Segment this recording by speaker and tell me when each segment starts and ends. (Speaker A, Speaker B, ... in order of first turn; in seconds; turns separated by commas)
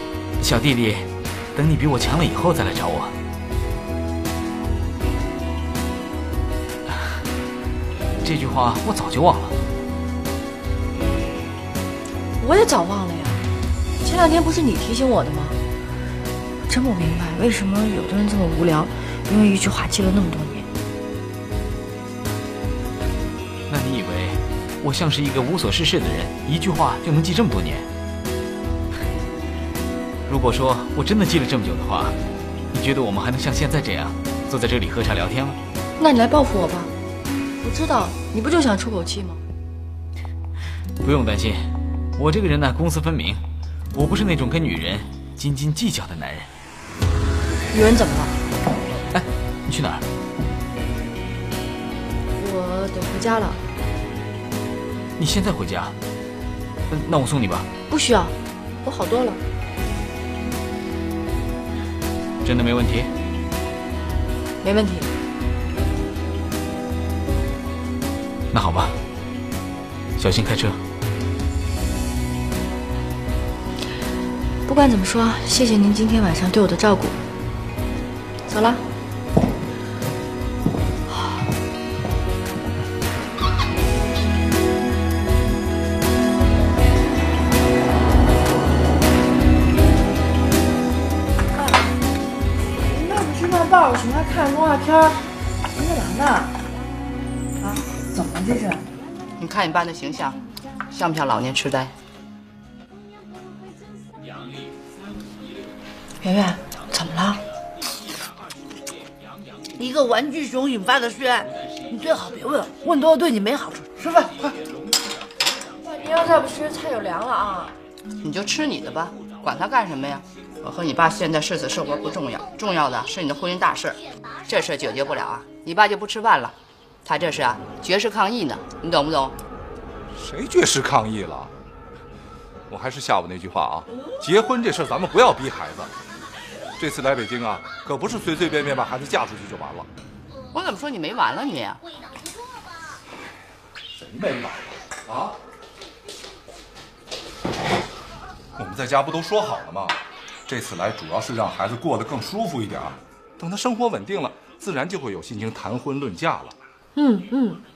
Speaker A: 0.4-3.1, Speaker A: 6.9-7.2, Speaker A: 8.2-9.6, Speaker B: 12.4-13.5, Speaker B: 14.0-15.6, Speaker B: 16.7-20.7, Speaker A: 23.7-27.9, Speaker A: 30.3-32.2, Speaker A: 32.7-35.6, Speaker B: 36.0-36.9, Speaker B: 37.6-39.4, Speaker A: 41.0-46.5, Speaker B: 47.7-48.4, Speaker A: 49.1-50.0, Speaker B: 52.4-53.6, Speaker A: 55.2-56.0, Speaker A: 56.9-57.7, Speaker B: 57.9-59.4, Speaker A: 62.4-63.1, Speaker B: 64.6-65.1, Speaker A: 68.5-68.9, Speaker A: 70.2-70.8, Speaker B: 74.7-77.2, Speaker B: 78.5-78.8, Speaker B: 81.1-81.4, Speaker B: 92.9-95.2, Speaker B: 95.7-96.5, Speaker B: 97.6-98.8, Speaker C: 99.4-100.4, Speaker C: 100.9-101.9, Speaker B: 106.2-107.4, Speaker D: 109.8-114.5, Speaker B: 115.8-117.7, Speaker C: 118.2-129.4, Speaker E: 130.1-131.5, Speaker E: 132.7-135.9, Speaker E: 136.8-139.9, Speaker C: 140.5-141.8, Speaker E: 143.9-145.4, Speaker E: 148.6-149.9, Speaker E: 150.5-156.6, Speaker B: 156.9-157.6